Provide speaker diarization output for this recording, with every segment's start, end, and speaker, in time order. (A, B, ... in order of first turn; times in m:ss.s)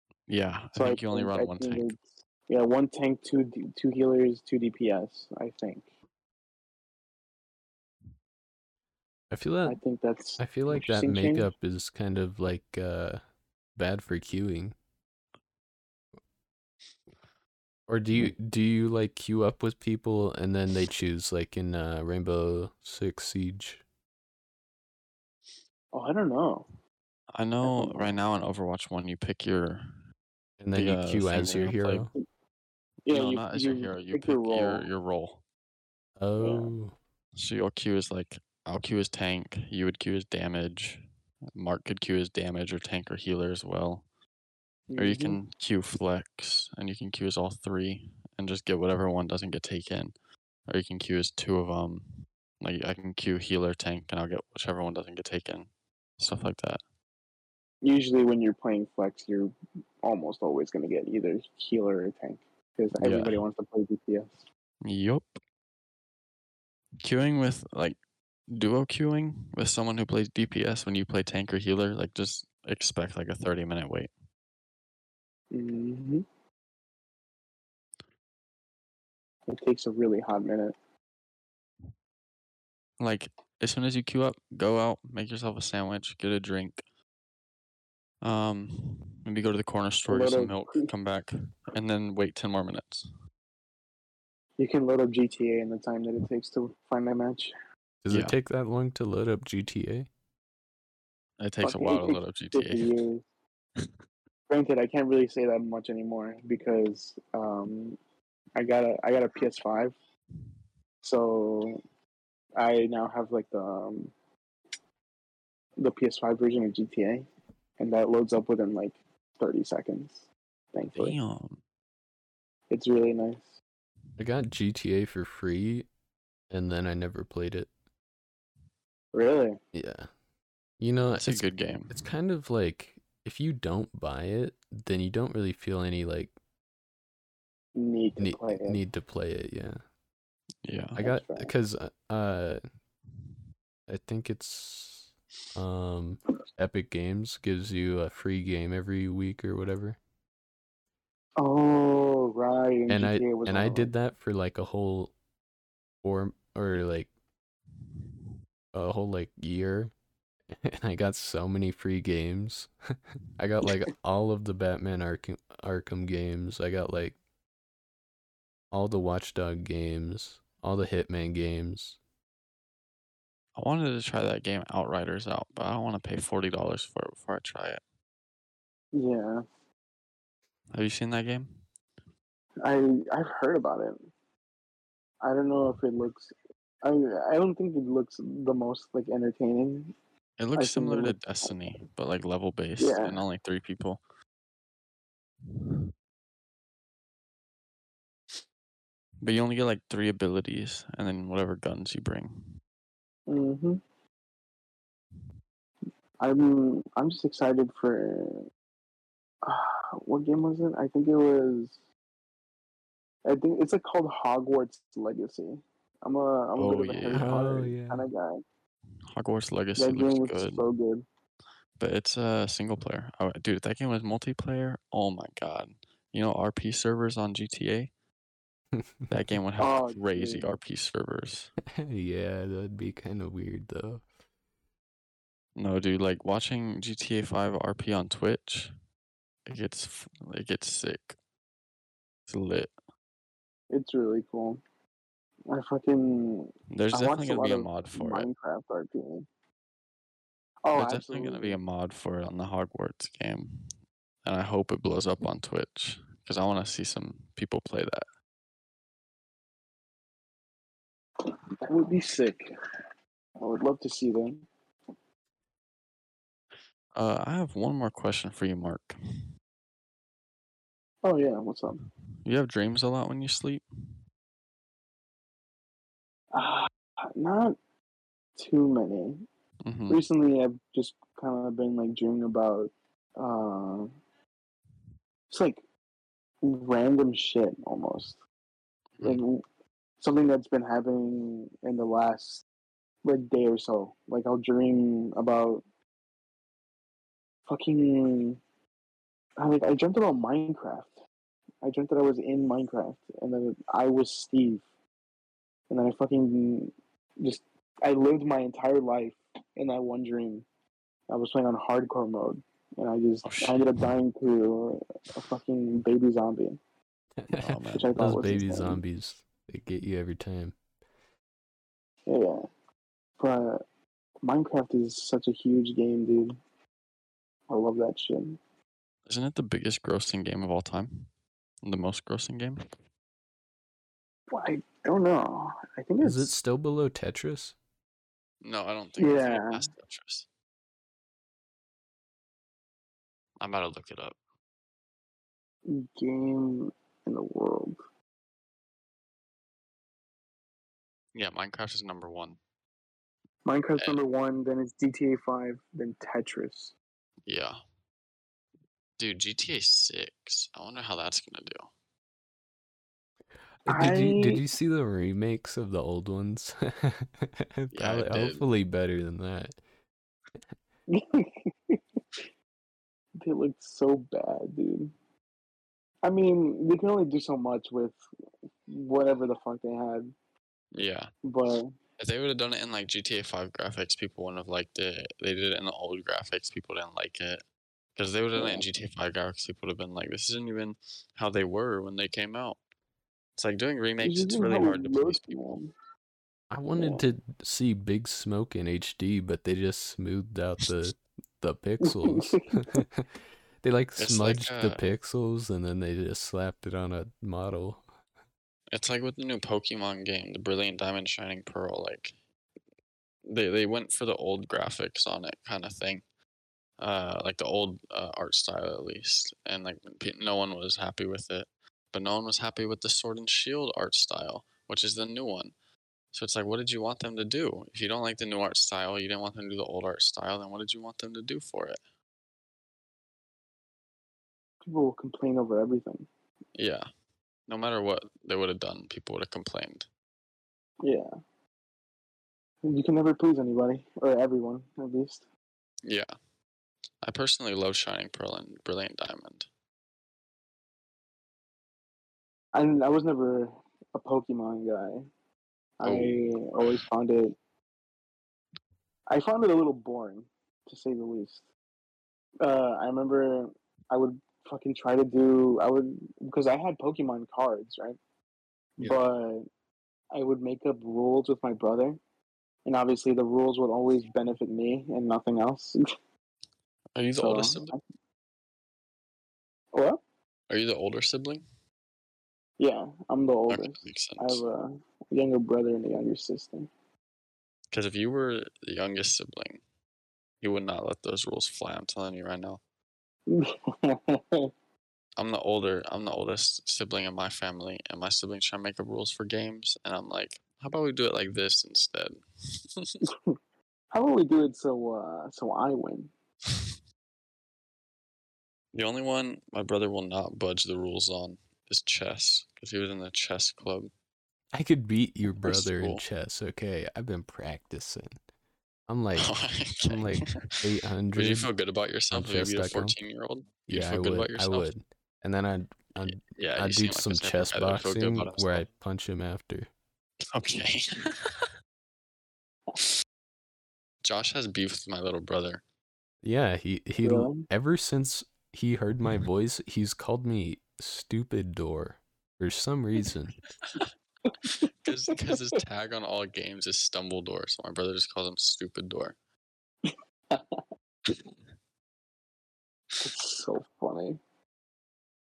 0:00.3-0:02.0 A
0:00.7-0:05.9 B
0:09.3-0:09.8 C
0:09.6-0:11.5 B
0:10.4-0:13.2 C
0:13.8-0:14.7 C
0:17.9-0:23.8 C
0:25.9-0:26.7 B
0:27.3-0:30.0 A
0:27.6-0:28.2 B
0:30.6-0:32.1 C
0:30.7-0:32.1 A
0:33.1-0:34.8 B
0:33.1-0:35.4 A
0:36.2-0:36.9 C
0:36.4-0:36.7 B
0:37.4-0:41.0 A
0:41.5-0:44.0 A
0:44.9-0:45.4 B
0:45.0-0:50.1 A
0:50.7-0:56.8 A
0:57.8-1:04.4 B
1:03.0-1:03.4 A
1:04.8-1:05.4 A
1:07.0-1:08.0 A
1:08.5-1:14.1 A
1:15.5-1:16.2 B
1:19.5-1:20.8 B
1:23.0-1:26.8 A
1:28.2-1:33.1 A
1:30.1-1:30.9 B
1:34.6-1:37.5 B
1:38.0-1:40.1 C
1:38.1-1:38.4 A
1:41.4-1:42.9 A
1:41.6-1:43.2 B
1:44.5-1:48.0 B
1:48.6-1:49.9 B
1:51.0-1:51.8 B
1:52.6-1:54.1 B
1:55.8-1:57.3 B
1:57.8-2:01.2 B
2:01.0-2:01.6 A
2:02.7-2:03.6 B
2:04.2-2:05.9 C
2:06.5-2:07.7 C
2:09.1-2:09.6 B
2:09.7-2:10.1 C
2:10.8-2:16.3 C
2:11.1-2:12.0 A
2:17.7-2:18.8 B
2:18.2-2:19.8 C
2:20.6-2:21.0 A
2:21.0-2:21.5 B
2:21.0-2:22.6 C
2:23.9-2:30.0 C
2:31.4-2:33.9 B
2:32.9-2:35.1 C
2:36.0-2:37.1 C
2:38.7-2:39.9 C
2:40.5-2:47.2 C
2:48.7-2:52.0 C
2:53.6-2:57.8 A
2:58.9-2:59.4 B
3:00.7-3:01.6 A
3:02.6-3:04.1 B
3:05.2-3:09.9 B
3:10.4-3:14.0 A
3:10.6-3:11.5 B
3:12.8-3:13.2 B
3:19.2-3:22.5 A
3:23.3-3:23.8 B
3:26.2-3:28.5 B
3:29.4-3:31.8 B
3:33.2-3:38.4 B
3:36.6-3:37.4 A
3:37.1-3:38.0 C
3:39.1-3:40.6 A
3:39.8-3:41.0 B
3:41.8-3:47.9 A
3:48.8-3:49.1 C
3:49.1-3:51.5 A
3:49.6-3:50.5 B
3:51.7-3:54.0 C
3:55.6-3:58.7 A
3:59.5-4:01.2 A
4:02.3-4:02.7 A
4:03.7-4:04.6 B
4:05.5-4:09.3 B
4:06.7-4:08.3 A
4:10.6-4:11.6 B
4:10.7-4:13.7 A
4:14.2-4:18.0 A
4:21.6-4:22.5 B
4:23.4-4:24.4 B
4:26.9-4:29.0 A
4:31.0-4:31.8 B
4:32.2-4:33.6 A
4:36.3-4:37.6 B
4:38.4-4:39.2 B
4:39.6-4:40.0 A
4:39.9-4:43.9 B
4:45.3-4:45.6 B
4:46.4-4:48.2 B
4:49.0-4:49.4 B
4:50.0-4:52.4 B
4:53.0-4:55.6 B
4:57.5-4:58.4 B
4:59.4-5:01.0 B
5:01.6-5:04.6 B
5:05.7-5:10.4 B
5:11.1-5:16.6 B
5:13.2-5:13.9 A
5:17.2-5:20.6 C
5:17.3-5:18.0 A
5:17.7-5:18.8 B
5:22.1-5:22.4 B
5:23.2-5:23.6 B
5:24.2-5:26.4 B
5:27.5-5:28.4 B
5:29.1-5:31.1 A
5:31.6-5:32.6 A
5:34.3-5:36.3 B
5:36.0-5:37.6 C
5:38.4-5:40.2 A
5:39.0-5:39.7 B
5:43.4-5:44.2 A
5:45.6-5:47.8 B
5:51.1-5:52.4 A
5:53.4-5:56.7 B
5:57.3-5:57.6 A
5:59.0-6:01.7 A
6:03.6-6:09.6 C
6:03.7-6:04.4 B
6:07.7-6:08.4 A
6:10.9-6:11.8 B
6:13.2-6:14.9 B
6:16.0-6:18.0 B
6:18.7-6:20.1 B
6:20.7-6:21.1 A
6:21.2-6:21.7 B
6:22.0-6:27.4 A
6:28.0-6:32.6 A
6:28.3-6:28.6 B
6:33.4-6:35.4 A
6:34.0-6:35.7 B
6:36.5-6:43.1 C
6:36.7-6:37.0 B
6:41.8-6:42.4 B
6:43.6-6:47.8 C
6:44.0-6:44.8 A
6:48.7-6:52.1 A
6:53.2-6:56.0 A
6:56.8-7:05.5 A
7:06.1-7:11.8 A
7:14.6-7:16.1 B
7:16.5-7:16.9 A
7:17.5-7:19.9 A
7:20.8-7:21.1 B
7:22.6-7:25.2 B
7:25.8-7:26.1 A
7:27.0-7:29.5 A
7:32.5-7:35.1 B
7:35.8-7:37.4 B
7:35.8-7:36.8 A
7:39.1-7:41.4 B
7:42.4-7:48.0 B
7:48.8-7:49.4 B
7:50.1-7:52.0 B
7:52.6-7:55.8 B
7:56.9-7:57.7 A
7:57.2-7:57.8 B
7:59.7-8:00.0 B
8:00.5-8:01.4 A
8:02.6-8:06.7 B
8:03.5-8:04.4 A
8:07.7-8:09.6 A
8:10.4-8:12.6 A
8:13.3-8:14.5 B
8:15.2-8:23.0 A
8:23.0-8:23.3 B
8:23.9-8:26.1 B
8:28.7-8:33.9 A
8:34.5-8:38.1 C
8:35.4-8:36.0 A
8:38.9-8:39.3 C
8:39.2-8:40.6 A
8:39.8-8:41.5 C
8:41.1-8:44.7 A
8:42.1-8:43.0 C
8:43.7-8:49.7 C
8:46.0-8:48.6 A
8:50.3-8:51.5 A
8:54.0-8:55.6 A
8:56.2-9:03.4 C
8:57.0-8:57.5 B
9:04.4-9:05.3 B
9:04.8-9:09.2 A
9:09.9-9:10.6 B
9:13.0-9:14.2 B